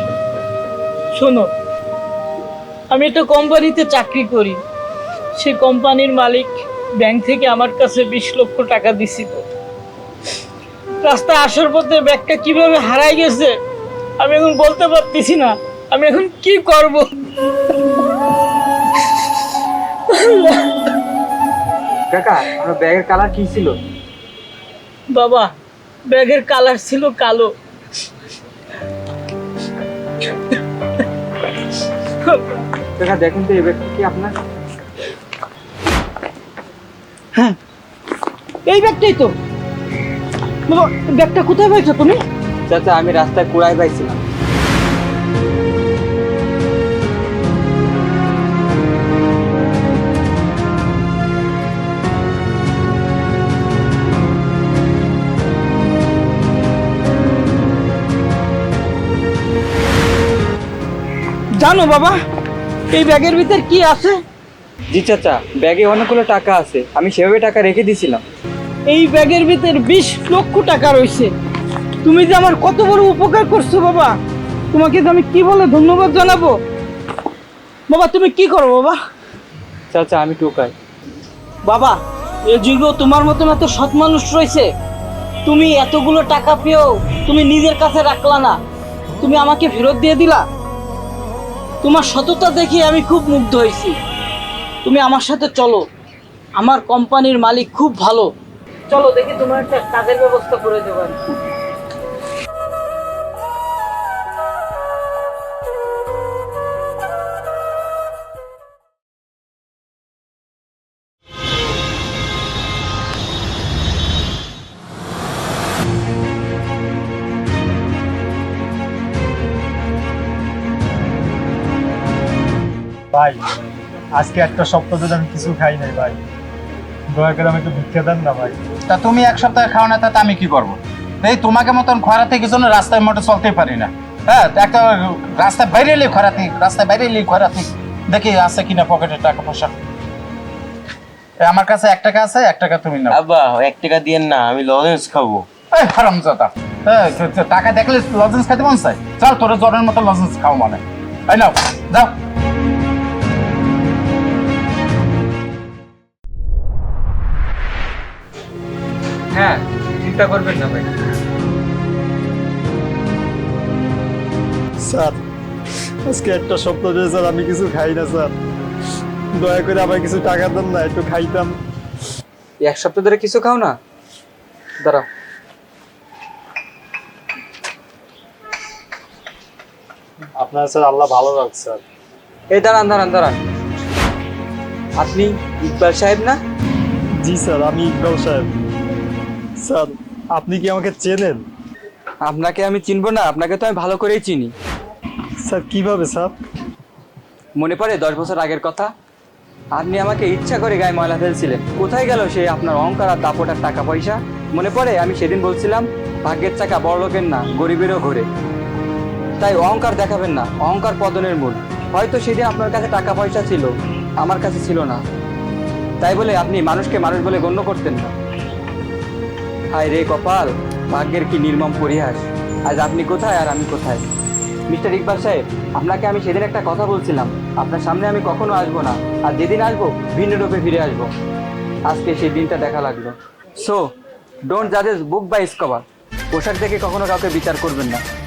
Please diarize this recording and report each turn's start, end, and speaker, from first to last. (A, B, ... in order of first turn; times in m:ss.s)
0:01.2-0:01.5 A
0:02.9-0:04.6 A
0:05.4-0:09.4 A
0:11.0-0:13.5 A
0:14.2-0:17.1 A
0:20.1-0:20.9 A
0:22.1-0:23.7 B
0:25.1-0:25.5 A
0:26.1-0:27.5 A
0:32.2-0:32.6 A
0:33.0-0:34.3 B
0:38.6-0:39.3 A
0:40.7-0:42.2 A
0:42.7-0:44.2 B
1:01.6-1:02.2 A
1:02.9-1:04.2 A
1:04.9-1:08.2 B
1:08.9-1:11.3 A
1:12.0-1:14.2 A
1:14.7-1:16.6 A
1:17.9-1:19.0 A
1:19.9-1:20.7 B
1:21.6-1:24.7 A
1:25.4-1:28.6 A
1:29.2-1:30.4 A
1:31.8-1:34.0 A
1:34.8-1:35.8 A
1:36.6-1:38.3 A
1:38.9-1:41.2 A
2:03.1-2:03.4 C
2:04.2-2:06.2 C
2:07.1-2:08.6 C
2:08.9-2:19.7 D
2:21.4-2:23.2 D
2:23.1-2:25.5 E
2:25.7-2:32.1 D
2:39.3-2:40.9 B
2:44.8-2:45.2 C
2:46.1-2:48.3 C
2:49.4-2:51.6 C
2:52.6-2:53.8 B
3:00.4-3:01.8 C
3:02.5-3:03.4 B
3:05.0-3:06.4 B
3:07.2-3:08.5 C
3:09.6-3:11.4 C
3:12.2-3:14.5 B
3:15.4-3:16.3 C
3:17.6-3:18.9 B
3:19.7-3:28.3 B
3:29.4-3:35.0 B
3:36.0-3:38.1 B
3:39.7-3:44.0 B
3:44.7-3:51.1 B
3:51.9-3:53.8 B
3:54.5-3:58.0 B